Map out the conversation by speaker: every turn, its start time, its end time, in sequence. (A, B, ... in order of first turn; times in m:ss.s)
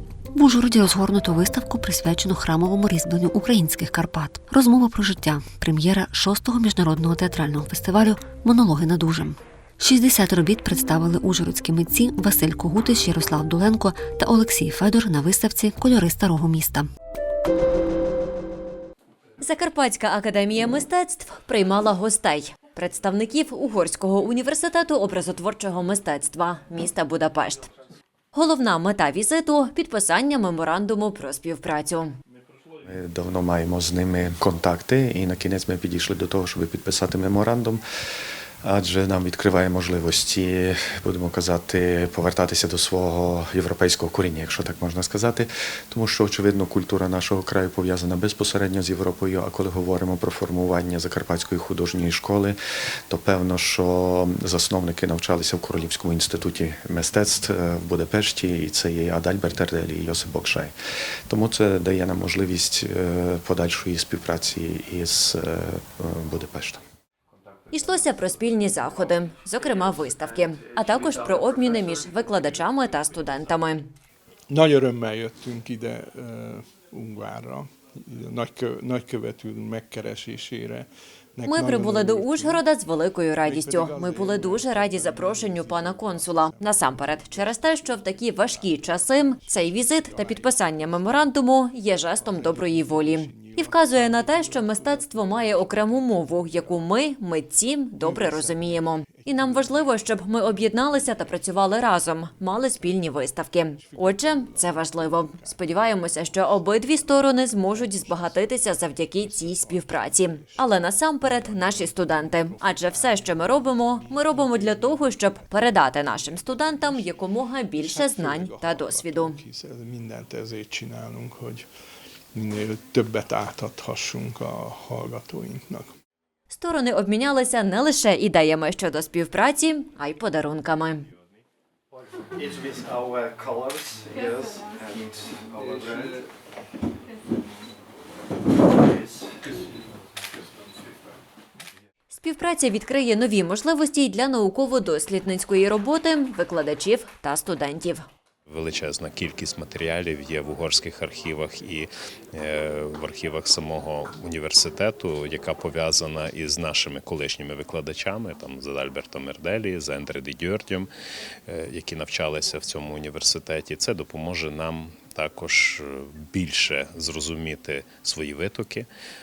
0:00.4-0:16.9 A
0:19.4-0:27.7 B
0:28.3-0:32.2 B
0:32.9-0:37.8 C
0:38.6-0:52.6 C
0:53.1-1:00.8 C
1:01.3-1:06.8 C
1:07.7-1:13.9 B
1:14.5-1:22.7 D
1:21.5-1:59.4 B
1:23.4-1:37.2 D
1:37.9-2:01.7 D
2:02.3-2:06.0 D
2:06.5-2:11.1 B
2:12.4-2:16.3 E
2:18.7-2:19.4 E
2:22.1-2:28.0 B
2:28.5-2:40.9 F
2:41.5-2:48.9 F